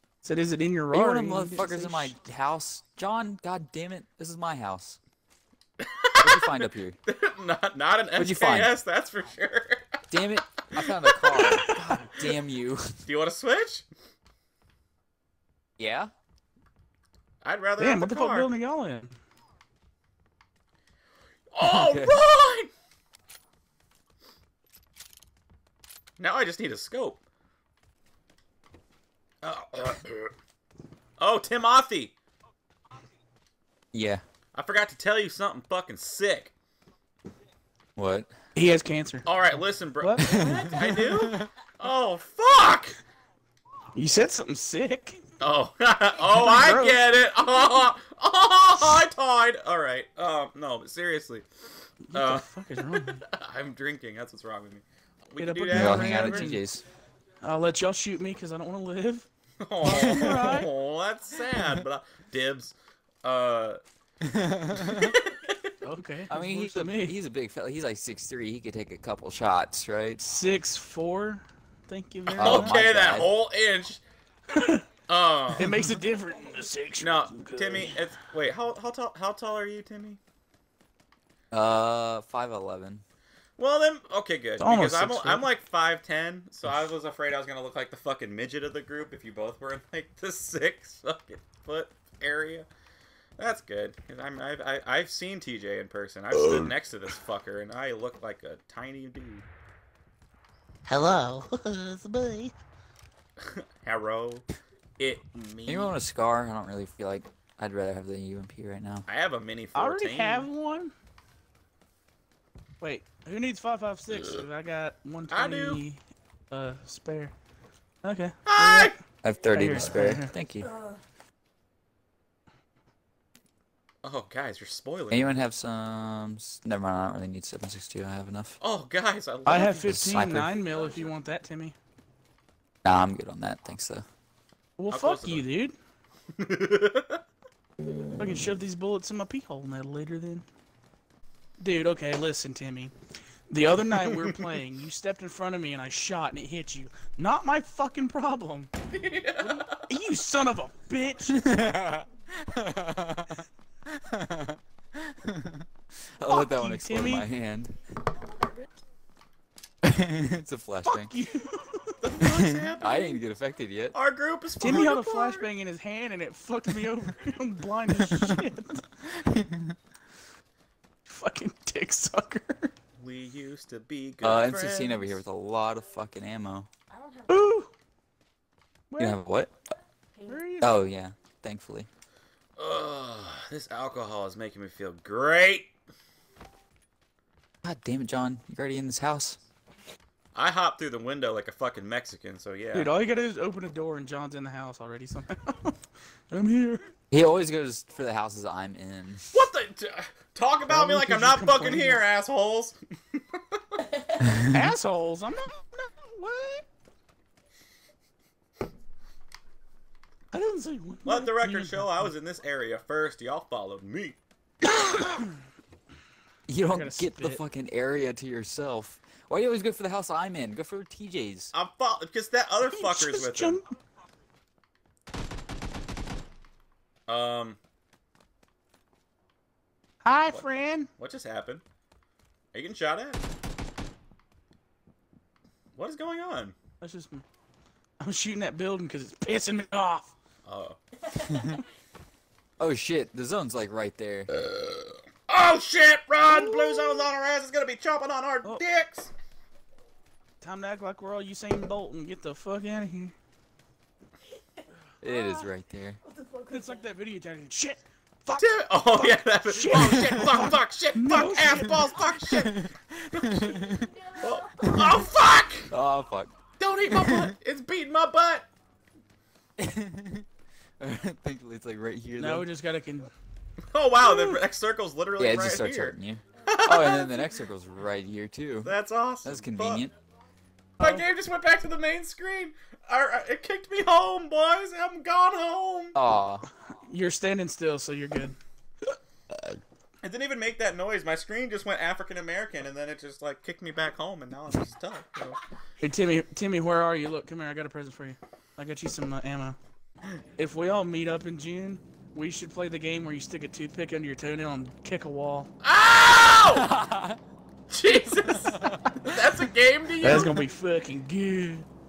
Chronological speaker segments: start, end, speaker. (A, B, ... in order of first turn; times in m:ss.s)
0:00.2-0:02.1 A
0:00.9-0:05.0 B
0:05.8-0:09.8 C
0:06.2-0:07.0 B
0:08.2-0:08.7 B
0:10.1-0:13.0 B
0:10.8-0:11.4 C
0:13.0-0:13.9 C
0:15.8-0:16.1 B
0:17.4-0:18.5 C
0:17.8-0:19.1 A
0:21.5-0:22.7 C
0:21.6-0:22.2 B
0:26.2-0:27.2 C
0:29.4-0:30.3 C
0:31.2-0:32.1 C
0:33.9-0:34.2 B
0:34.5-0:36.5 C
0:38.0-0:38.3 B
0:38.6-0:39.3 A
0:39.2-0:43.0 C
0:40.0-0:40.6 A
0:40.3-0:41.5 B
0:43.9-0:45.2 A
0:45.4-0:51.5 C
0:46.3-0:47.0 A
0:52.1-0:53.2 A
0:52.1-0:56.5 C
0:55.4-0:56.6 A
0:55.7-0:56.8 B
0:57.4-0:59.3 A
0:59.6-1:03.8 C
0:59.8-1:00.7 A
0:59.8-1:00.6 B
1:04.2-1:05.1 B
1:04.8-1:05.6 C
1:05.8-1:07.2 A
1:06.3-1:10.3 B
1:10.2-1:12.8 A
1:12.3-1:13.3 B
1:12.3-1:14.0 C
1:14.5-1:14.8 A
1:15.1-1:15.7 C
1:15.6-1:17.9 A
1:17.0-1:20.2 C
1:21.5-1:23.0 B
1:23.6-1:32.7 C
1:24.6-1:25.4 A
1:33.4-1:39.4 C
1:40.9-1:42.5 A
1:43.4-1:44.4 C
1:45.0-1:46.0 C
1:45.6-1:49.0 B
1:49.1-1:50.5 C
1:49.7-1:50.9 A
1:52.8-1:57.3 A
1:55.3-1:55.8 C
1:58.0-1:59.0 A
1:58.5-1:58.9 C
1:59.2-2:00.7 B
1:59.5-2:00.3 A
2:04.0-2:05.4 C
2:05.1-2:08.6 B
2:08.6-2:11.0 C
2:09.4-2:11.8 A
2:09.8-2:10.5 B
2:12.8-2:14.0 B
2:14.8-2:15.7 A
2:14.9-2:15.4 C
2:16.4-2:17.2 C
2:18.2-2:20.4 A
2:21.6-2:22.9 A
2:23.5-2:28.7 A
2:28.9-2:29.8 C
2:29.4-2:31.4 A
2:31.3-2:37.7 B
2:36.2-2:37.3 A
2:39.8-2:41.1 B
2:40.8-2:42.0 A
2:42.0-2:43.2 C
2:42.2-2:44.0 B
2:43.9-2:45.4 C
2:44.6-2:48.8 A
2:48.0-2:48.5 B
2:49.0-2:49.8 B
2:51.0-2:52.7 A
2:53.0-2:55.2 C
2:54.2-2:56.7 B
2:57.3-2:57.7 A
2:58.9-2:59.2 A
2:59.0-2:59.5 B
3:00.2-3:00.8 A
3:00.6-3:01.9 B
3:02.6-3:05.7 C
3:07.6-3:09.4 B
3:10.3-3:12.9 C
3:12.7-3:15.8 A
3:16.3-3:16.9 A
3:17.1-3:19.4 B
3:19.3-3:23.8 C
3:20.6-3:22.0 A
3:24.2-3:24.5 B
3:24.5-3:26.6 A
3:30.3-3:32.1 A
3:31.0-3:34.2 C
3:34.6-3:35.3 A
3:36.5-3:41.5 B
3:36.7-3:37.4 A
3:41.5-3:43.6 C
3:42.7-3:43.6 A
3:47.1-3:47.6 C
3:50.0-3:50.9 A
3:50.3-3:51.6 C
3:52.5-3:53.2 C
3:55.8-3:56.6 C
3:56.8-3:57.2 A
3:58.0-4:00.1 A
4:00.4-4:00.8 C
4:01.1-4:01.6 B
4:02.6-4:04.3 B
4:04.4-4:09.1 C
4:06.3-4:07.0 A
4:10.4-4:13.1 A
4:15.0-4:16.0 B
4:15.1-4:15.4 A
4:16.5-4:21.9 A
4:18.4-4:25.7 C
4:19.8-4:20.2 B
4:22.3-4:24.1 B
4:24.6-4:25.0 B
4:25.7-4:26.4 B
4:26.6-4:28.5 C
4:26.9-4:27.3 B
4:29.6-4:30.3 B
4:30.8-4:32.5 B
4:32.2-4:33.1 A
4:33.7-4:35.9 C
4:34.0-4:34.4 A
4:35.2-4:38.7 B
4:36.5-4:37.2 C
4:38.6-4:39.8 C
4:39.2-4:39.9 B
4:40.8-4:41.0 A
4:40.8-4:45.9 C
4:45.9-4:46.5 B
4:46.7-4:48.4 A
4:50.0-4:55.4 C
4:55.8-4:59.6 A
5:00.4-5:05.5 A
5:05.6-5:06.6 C
5:06.5-5:07.2 B
5:07.7-5:10.4 C
5:08.3-5:08.8 B
5:10.0-5:11.7 A